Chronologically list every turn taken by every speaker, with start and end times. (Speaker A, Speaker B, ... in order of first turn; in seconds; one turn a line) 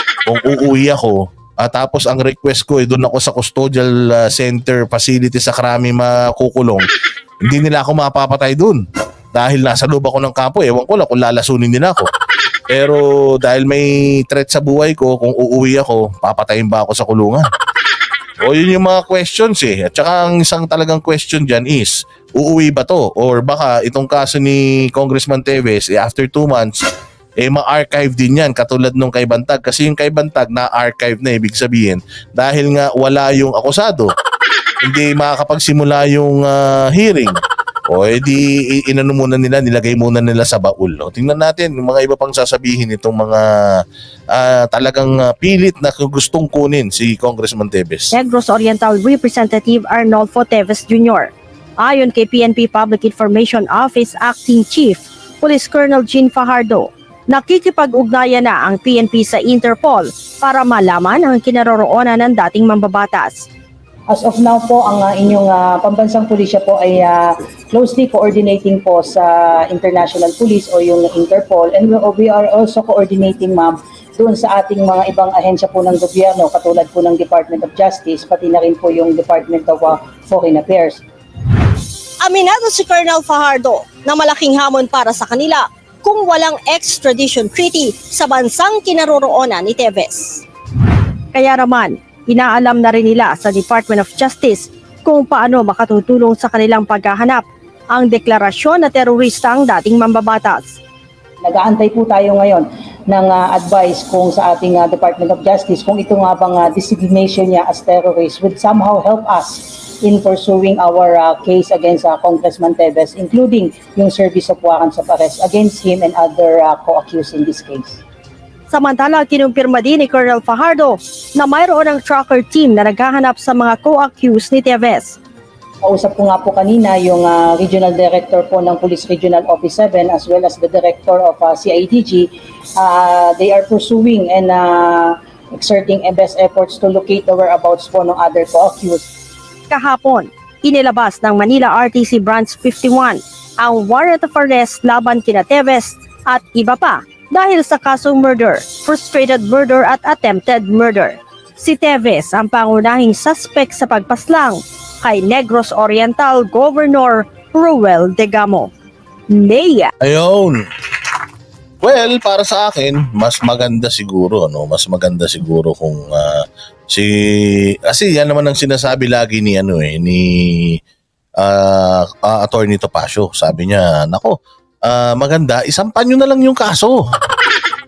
Speaker A: 0.2-6.8
Speaker A: 7.4-8.8
Speaker A: 9.3-12.1
Speaker A: 12.7-17.5
Speaker A: 18.4-26.8
Speaker A: 27.4-34.1
Speaker A: 34.8-37.4
Speaker A: 37.9-48.1
Speaker B: 48.1-63.5
Speaker C: 64.1-81.0
Speaker B: 82.2-90.4
Speaker B: 91.3-100.8
Speaker C: 101.4-118.0
Speaker B: 118.7-125.2
Speaker C: 125.8-139.1
Speaker B: 139.7-158.7
Speaker B: 159.3-159.9
Speaker A: 160.0-160.6
Speaker A: 161.8-170.8
Speaker A: 171.4-177.0